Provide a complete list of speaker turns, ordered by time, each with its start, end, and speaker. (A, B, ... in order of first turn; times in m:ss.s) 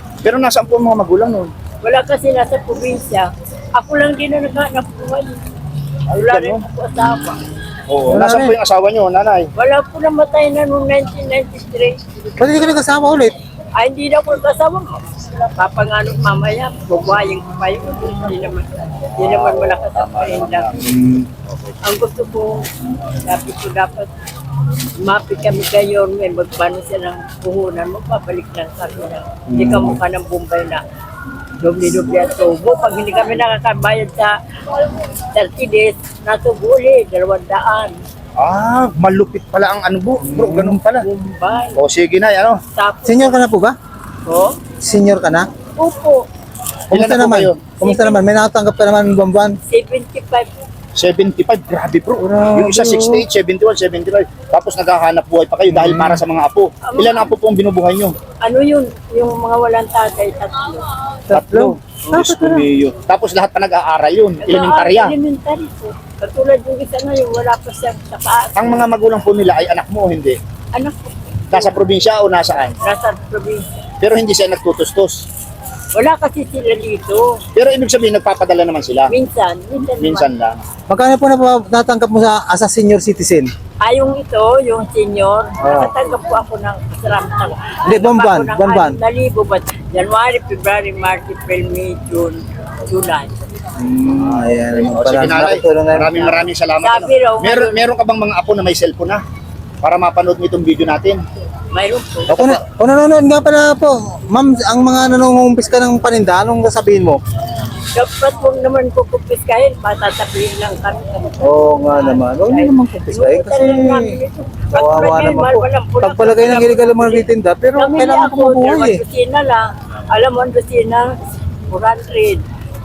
0:00.2-0:01.5 A
0:01.8-0:05.4 B
0:06.1-0:07.4 B
0:06.2-0:06.6 A
0:07.9-0:09.5 A
0:08.1-0:08.6 C
0:09.6-0:12.3 B
0:12.4-0:13.4 C
0:13.8-0:20.8 B
0:19.2-0:20.8 A
0:20.8-0:21.3 C
0:21.5-0:21.8 A
0:21.8-0:22.7 B
0:23.2-0:24.1 B
0:25.0-0:30.8 B
0:29.5-0:30.0 C
0:31.6-0:34.4 B
0:35.3-0:38.0 B
0:38.4-0:41.1 A
0:40.2-0:40.8 C
0:40.9-0:41.8 B
0:41.8-0:42.6 A
0:42.8-0:43.4 B
0:43.1-0:43.8 C
0:44.3-0:44.6 B
0:44.8-0:45.5 C
0:45.8-0:46.3 B
0:46.9-0:49.6 C
0:46.9-0:47.6 A
0:47.7-0:48.2 B
0:49.7-0:50.6 B
0:51.0-0:58.2 A
0:52.2-0:53.2 C
0:55.7-0:56.2 C
0:56.8-0:57.3 B
0:58.4-1:00.9 B
1:01.3-1:02.7 C
1:01.3-1:05.1 A
1:04.4-1:08.9 B
1:08.6-1:10.4 A
1:10.7-1:11.9 B
1:11.5-1:12.8 A
1:12.8-1:13.7 B
1:14.0-1:15.3 A
1:15.9-1:17.4 B
1:17.6-1:19.1 A
1:19.1-1:20.3 B
1:19.8-1:20.6 A
1:20.9-1:23.5 C
1:23.8-1:33.4 B
1:25.6-1:25.9 C
1:27.8-1:29.0 C
1:33.8-1:36.4 C
1:34.7-1:39.2 A
1:36.8-1:37.8 B
1:39.8-1:41.2 A
1:41.7-1:42.6 B
1:42.3-1:47.2 C
1:48.0-2:01.2 B
1:51.4-1:54.1 C
1:54.7-1:59.0 C
2:01.7-2:02.4 B